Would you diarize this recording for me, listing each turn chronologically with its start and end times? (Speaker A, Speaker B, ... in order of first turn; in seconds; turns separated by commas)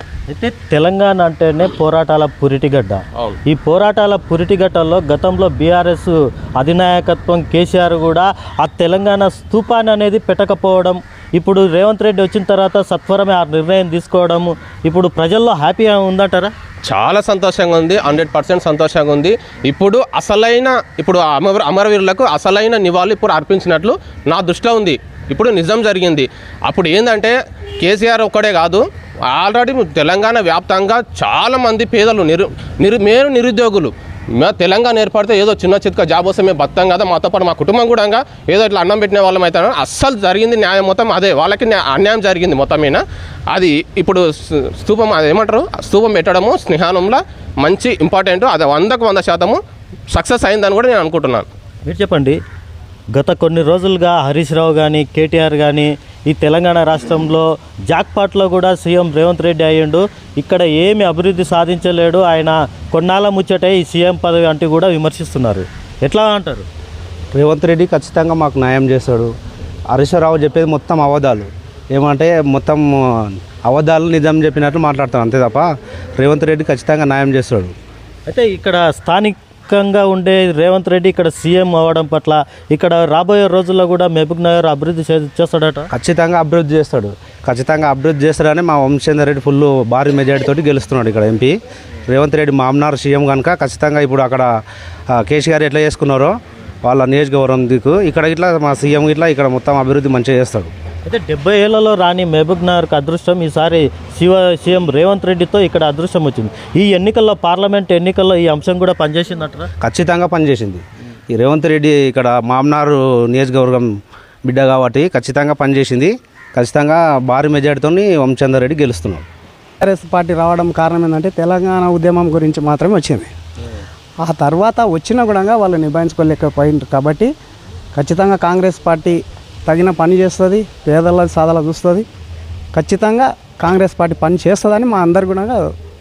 Speaker A: 0.3-16.5, Speaker B: 16.9-49.6, Speaker B: 50.1-51.5, Speaker A: 51.9-52.4, Speaker A: 53.1-66.7, Speaker C: 67.3-69.3, Speaker C: 69.9-77.7, Speaker A: 78.3-85.9, Speaker C: 85.9-94.6, Speaker C: 95.1-100.7, Speaker A: 101.0-109.7, Speaker C: 109.8-119.3, Speaker D: 119.8-123.3, Speaker D: 124.2-127.3, Speaker D: 128.0-132.1, Speaker D: 132.7-135.7